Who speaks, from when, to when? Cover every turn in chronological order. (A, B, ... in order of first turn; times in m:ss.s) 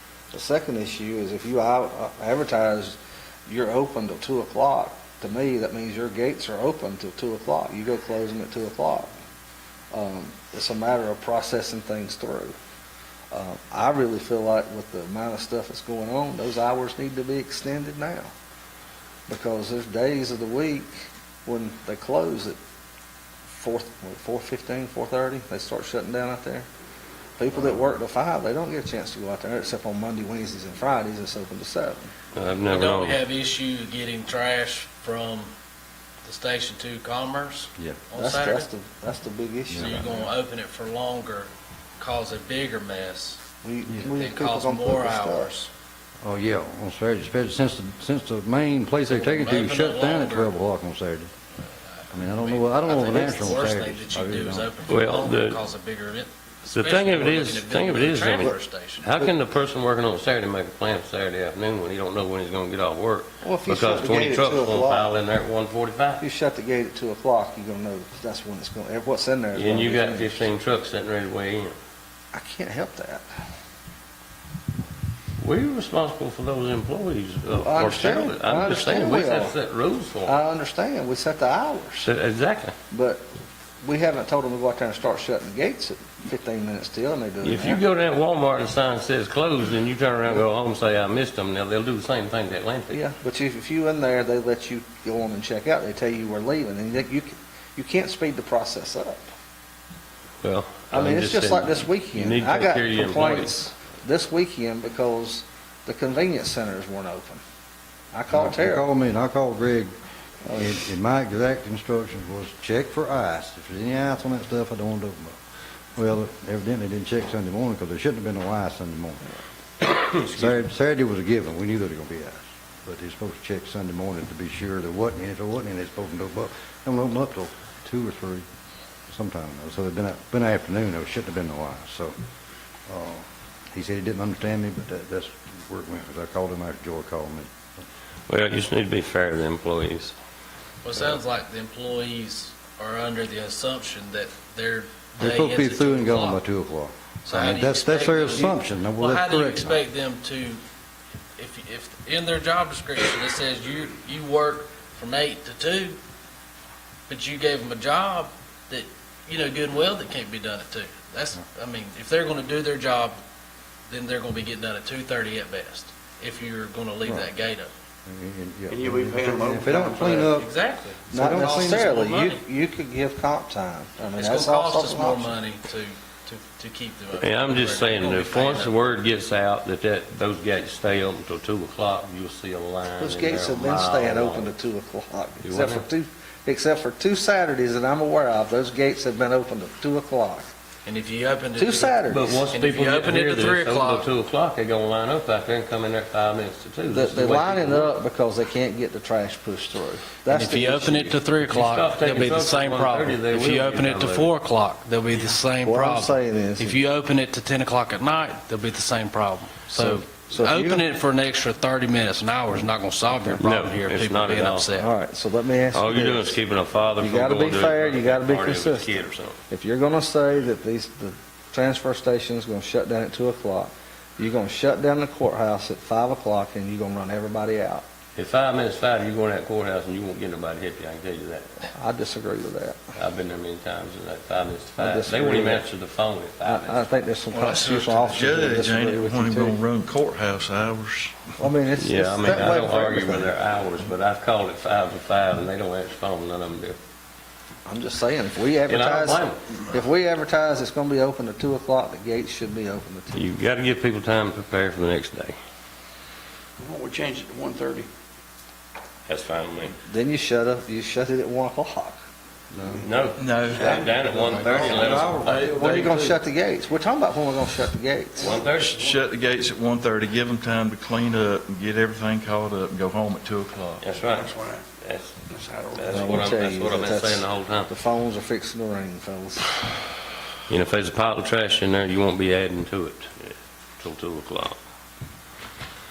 0:00.3-0:09.1 A
0:09.9-0:12.5 A
0:13.3-0:18.3 A
0:19.3-0:22.6 A
0:23.5-0:26.7 A
0:27.4-0:32.1 A
0:32.3-0:33.2 B
0:32.7-0:35.5 C
0:36.2-0:38.7 C
0:38.2-0:40.3 A
0:39.8-0:43.4 C
0:43.6-0:45.5 A
0:44.0-0:45.7 C
0:46.2-0:51.3 D
0:49.1-0:50.5 C
0:52.1-0:54.7 D
0:52.1-0:59.3 C
0:54.9-0:55.6 B
0:56.7-1:06.2 B
1:03.4-1:05.1 A
1:06.2-1:10.5 A
1:09.5-1:11.8 B
1:12.3-1:13.3 A
1:15.4-1:20.4 B
1:17.5-1:19.6 A
1:20.2-1:22.1 A
1:22.0-1:22.7 B
1:22.9-1:23.2 A
1:23.8-1:27.8 A
1:27.4-1:33.0 B
1:32.9-1:39.2 A
1:40.4-1:43.5 B
1:40.9-1:47.4 A
1:48.1-1:48.8 A
1:48.3-1:49.9 D
1:50.4-1:55.4 D
1:56.0-1:59.2 D
2:00.0-2:08.4 D
2:00.3-2:00.6 B
2:09.1-2:12.1 D
2:12.9-2:17.5 D
2:18.3-2:20.1 B
2:20.8-2:26.4 C
2:25.2-2:29.8 D
2:27.2-2:30.6 C
2:31.4-2:36.0 C
2:37.1-2:43.2 C
2:43.9-2:47.7 C
2:48.0-2:50.5 D
2:48.7-2:50.3 E
2:50.2-2:52.4 C
2:51.1-2:51.9 D
2:51.1-2:55.3 A
2:54.2-2:58.9 C
2:57.2-3:04.5 B
3:03.0-3:10.5 A
3:05.4-3:05.8 B
3:10.8-3:14.1 C
3:11.6-3:12.4 A
3:12.1-3:17.9 B
3:16.9-3:21.2 A
3:20.3-3:34.9 C
3:21.5-3:24.3 B
3:25.6-3:26.8 A
3:29.7-3:30.8 A
3:33.4-3:34.7 B
3:34.8-3:36.4 A
3:35.7-3:39.4 B
3:37.0-3:39.0 A
3:39.5-3:47.8 A
3:48.1-3:51.7 B
3:51.7-3:52.8 A
3:53.0-3:56.8 B
3:54.8-3:55.6 A
3:56.4-3:59.6 A
3:57.3-3:58.2 C
3:57.5-4:01.4 F
4:01.4-4:03.3 A
4:01.8-4:06.8 B
4:07.7-4:13.2 A
4:08.7-4:09.4 B
4:13.1-4:15.4 B
4:16.6-4:17.9 E
4:19.1-4:19.8 B
4:19.9-4:22.0 A
4:22.5-4:22.8 D
4:22.7-4:25.6 B
4:23.2-4:23.8 F
4:23.5-4:26.2 D
4:23.6-4:24.6 E
4:24.8-4:28.4 A
4:28.2-4:28.9 B
4:28.5-4:33.9 F
4:33.8-4:35.2 B
4:34.0-4:34.6 E
4:35.3-4:36.3 E
4:35.7-4:37.7 B
4:35.9-4:39.5 A
4:40.5-4:44.6 B